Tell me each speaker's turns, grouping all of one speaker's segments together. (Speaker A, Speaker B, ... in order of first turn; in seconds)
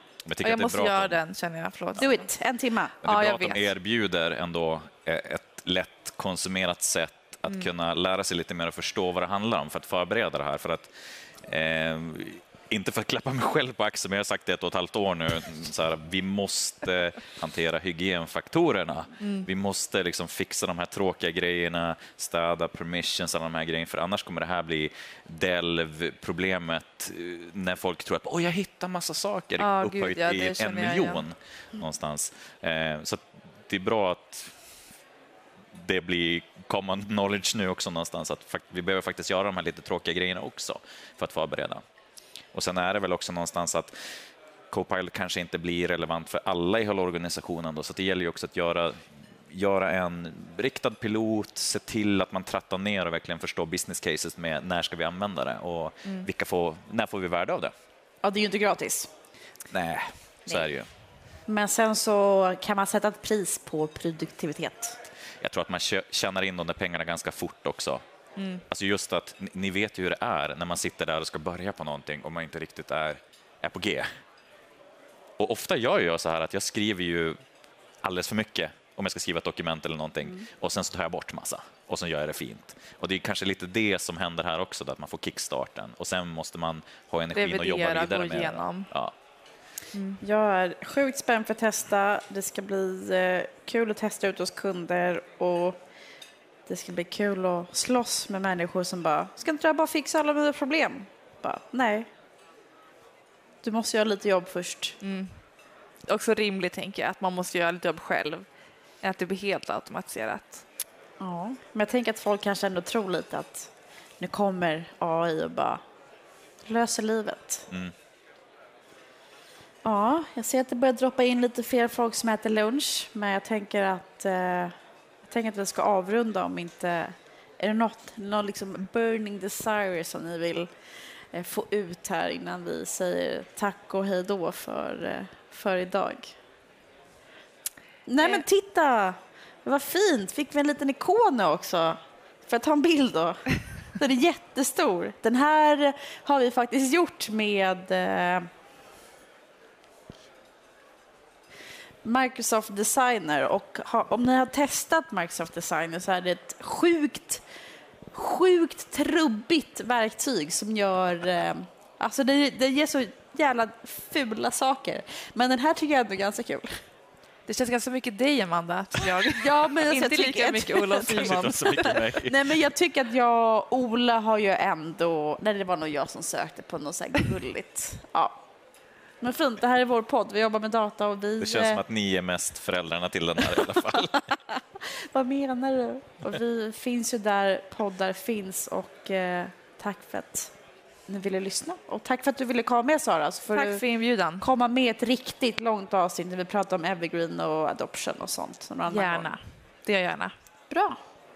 Speaker A: 0.2-1.2, 3.0-10.9, 11.4-34.5, 35.7-41.8, 42.5-43.9, 44.7-57.7, 59.7-60.9, 65.4-68.0, 68.7-74.0, 75.4-77.4, 78.0-89.1, 171.1-172.3, 181.4-184.3
Speaker B: 0.4-2.3, 3.0-3.7, 19.2-19.5, 29.6-31.2, 68.4-68.6, 87.3-88.9, 89.9-90.2, 105.0-105.4, 106.1-108.5, 109.0-110.6, 167.5-172.0, 193.5-194.4, 198.9-200.3
Speaker C: 2.0-3.0, 58.2-59.1, 61.5-65.0, 90.2-95.8, 96.7-102.1, 103.6-105.0, 111.2-115.8, 116.6-117.7, 119.8-130.7, 131.3-136.3, 138.1-143.4, 143.9-148.5, 152.0-157.4, 158.1-166.7, 169.2-178.4, 179.2-181.8, 184.9-190.5, 191.1-193.8, 194.4-199.3, 200.7-201.0